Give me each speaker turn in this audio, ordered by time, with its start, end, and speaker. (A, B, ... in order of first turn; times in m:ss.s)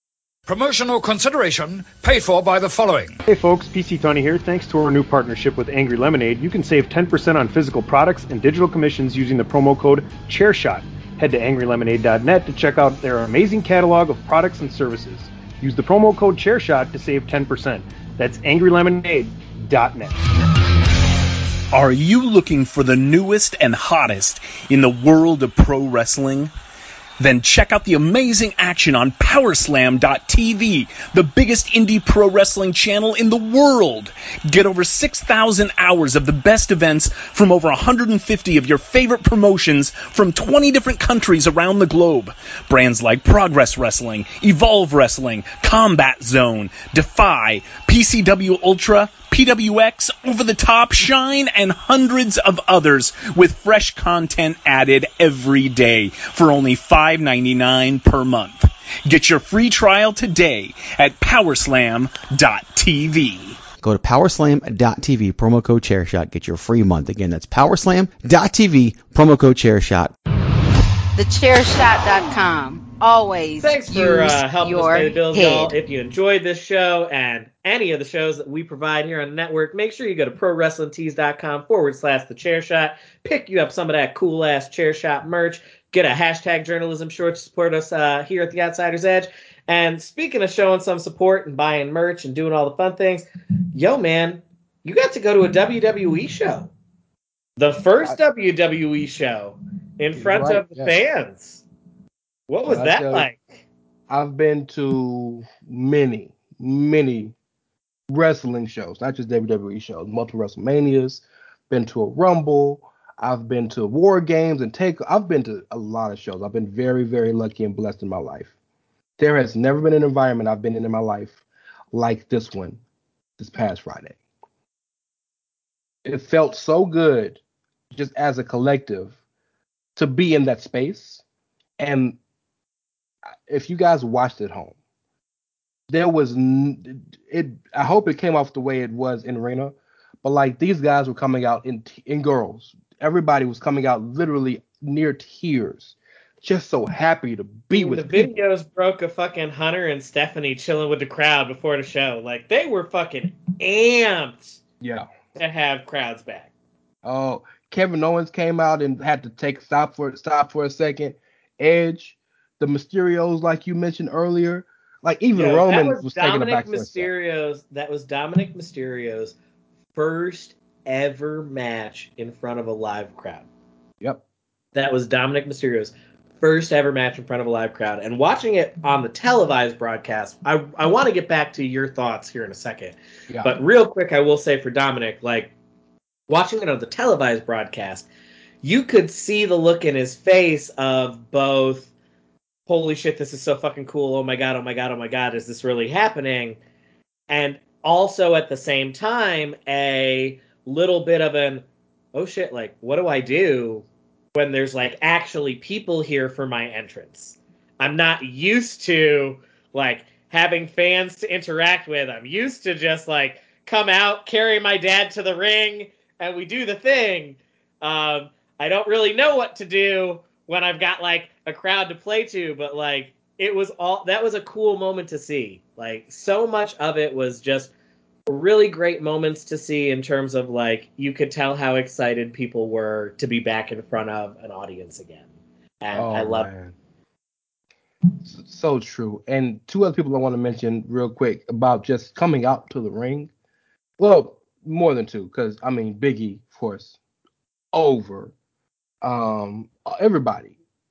0:00.5-0:03.2 A
0:03.3-0:20.2 B
0:21.7-0:26.5 C
0:27.2-1:03.6 C
1:03.8-1:10.1 D
1:11.2-1:15.8 E
1:13.6-1:36.7 F
1:37.6-1:41.6 F
1:40.1-1:41.0 G
1:42.5-1:43.6 F
1:42.6-1:43.3 G
1:44.1-1:47.3 G
1:48.1-1:58.5 G
1:59.2-2:01.4 G
2:01.9-2:02.8 G
2:03.4-2:04.2 G
2:06.0-2:07.4 G
2:07.9-2:09.1 G
2:10.0-2:11.2 G
2:11.8-2:12.2 G
2:13.5-2:14.8 G
2:15.9-2:28.4 G
2:27.7-2:34.6 F
2:34.8-2:35.1 G
2:35.4-2:36.5 F
2:37.0-2:47.1 G
2:45.3-2:49.4 F
2:50.0-2:53.5 F
2:54.7-3:05.5 F
3:03.3-3:03.6 G
3:06.3-3:08.1 F
3:08.6-3:11.9 F
3:12.7-3:16.6 F
3:17.3-3:47.7 F
3:48.3-3:55.3 F
3:55.8-3:56.5 F
3:55.9-3:56.7 G
3:58.2-4:03.3 G
4:04.0-4:07.0 G
4:07.7-4:08.3 G
4:09.0-4:10.6 G